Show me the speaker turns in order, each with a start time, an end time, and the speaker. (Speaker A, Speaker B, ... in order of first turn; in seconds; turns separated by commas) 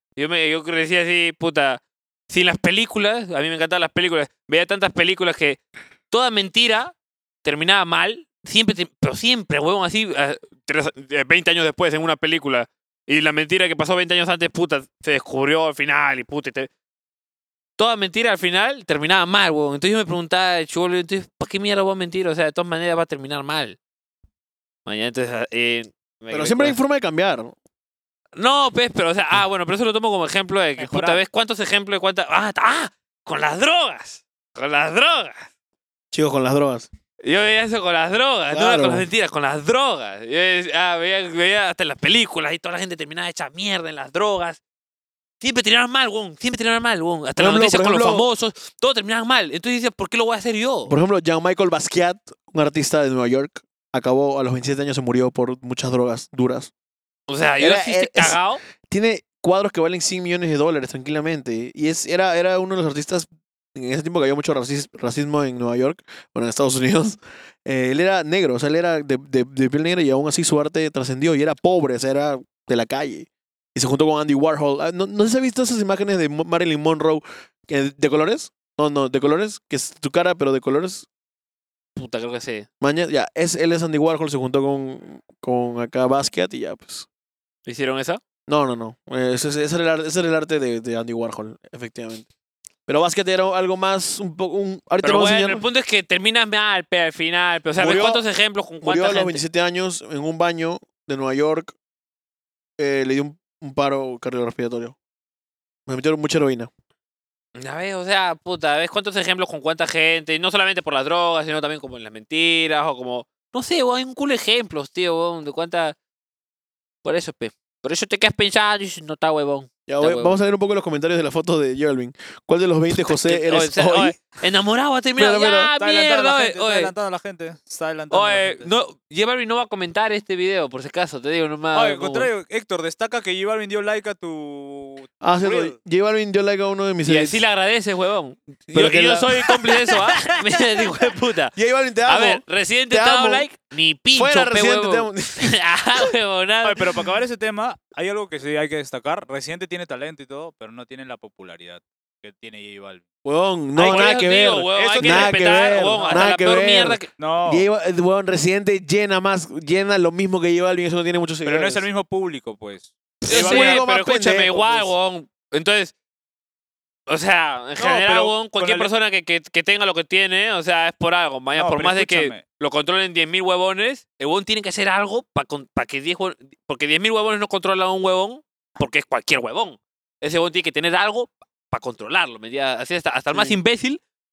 Speaker A: 0.2-5.6, Speaker A: 6.1-16.7, Speaker A: 17.8-23.8, Speaker A: 24.9-26.8, Speaker B: 26.3-27.6, Speaker A: 28.4-35.5, Speaker C: 30.8-31.2, Speaker B: 36.1-36.9, Speaker A: 37.2-44.6, Speaker B: 38.5-39.1, Speaker A: 45.4-50.9, Speaker B: 47.4-48.3, Speaker B: 50.9-56.7, Speaker A: 57.3-58.6, Speaker B: 57.6-81.1, Speaker A: 82.0-82.7, Speaker B: 82.8-87.1, Speaker A: 87.7-88.2, Speaker B: 88.5-92.3, Speaker B: 92.9-95.6, Speaker A: 95.0-99.4, Speaker B: 97.8-98.2, Speaker B: 98.8-101.7, Speaker B: 102.8-105.0, Speaker B: 105.9-106.7, Speaker A: 107.6-116.0, Speaker A: 117.0-120.4, Speaker B: 119.9-124.2, Speaker A: 123.0-126.9, Speaker B: 125.2-125.7, Speaker C: 125.8-128.7, Speaker A: 128.1-132.3, Speaker C: 131.7-135.8, Speaker B: 135.2-137.4, Speaker A: 137.1-141.5, Speaker B: 138.7-139.5, Speaker C: 139.9-140.2, Speaker B: 141.6-143.5, Speaker A: 142.1-146.9, Speaker B: 144.1-145.6, Speaker C: 146.6-153.0, Speaker B: 153.2-161.8, Speaker A: 153.8-157.1, Speaker C: 153.8-156.3, Speaker C: 157.2-157.7, Speaker C: 161.4-163.8, Speaker A: 163.2-165.9, Speaker B: 163.3-164.9, Speaker A: 167.1-184.0, Speaker C: 167.8-168.9, Speaker C: 171.6-172.4